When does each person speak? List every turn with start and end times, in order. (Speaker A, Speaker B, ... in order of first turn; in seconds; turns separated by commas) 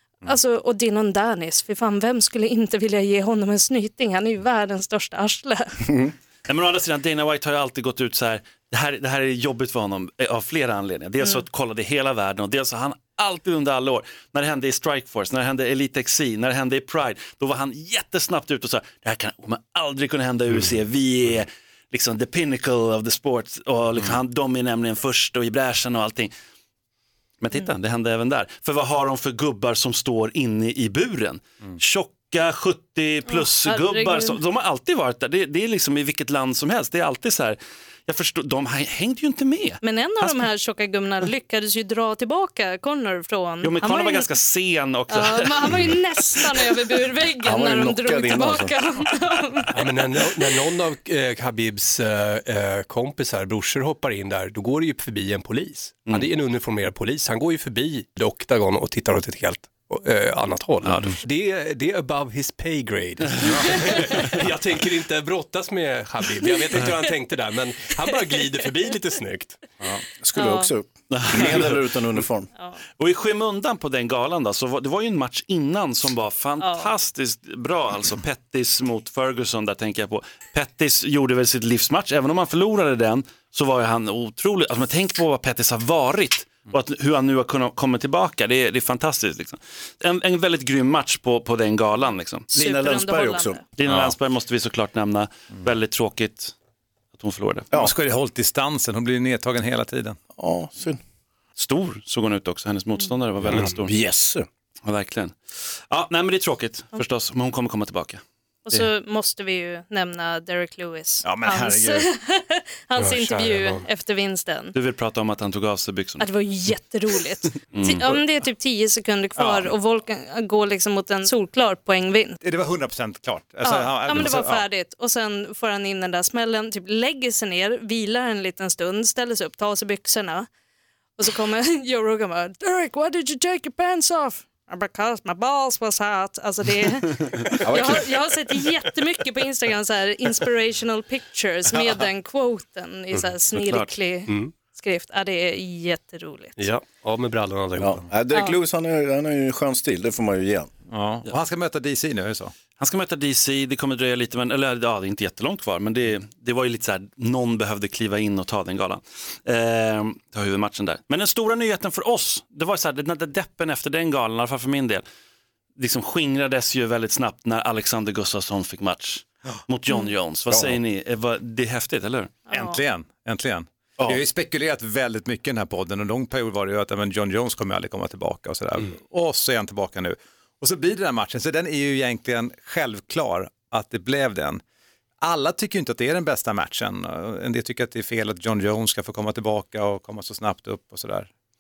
Speaker A: 0.2-5.8, Speaker B: 6.5-26.3, Speaker B: 27.4-40.5, Speaker A: 33.3-34.4, Speaker A: 39.8-44.3, Speaker B: 43.6-45.9, Speaker A: 45.1-49.7, Speaker C: 47.4-48.8, Speaker D: 49.7-69.6, Speaker B: 60.8-61.2, Speaker C: 70.1-72.5, Speaker A: 70.4-70.7, Speaker B: 71.1-71.8, Speaker B: 73.0-92.5, Speaker A: 76.6-76.9, Speaker A: 92.5-93.6, Speaker C: 92.6-93.6, Speaker B: 93.8-96.5, Speaker E: 93.8-94.1, Speaker B: 97.2-97.7, Speaker E: 97.7-100.2, Speaker C: 100.4-101.0, Speaker B: 101.6-103.9, Speaker C: 103.5-104.5, Speaker B: 104.8-108.2, Speaker A: 108.7-114.8, Speaker E: 111.2-112.1, Speaker D: 113.0-113.8, Speaker B: 114.7-116.3, Speaker A: 116.2-122.4, Speaker B: 117.7-118.1, Speaker E: 119.4-119.7, Speaker E: 122.4-124.7, Speaker A: 123.6-130.5, Speaker A: 131.2-146.6, Speaker C: 137.6-138.1, Speaker B: 143.5-143.9, Speaker D: 146.6-148.0, Speaker C: 147.8-150.7, Speaker E: 150.9-152.5, Speaker B: 152.8-165.0, Speaker B: 165.8-172.4, Speaker C: 170.5-170.8, Speaker A: 172.5-172.8, Speaker E: 172.5-184.6, Speaker E: 185.2-191.3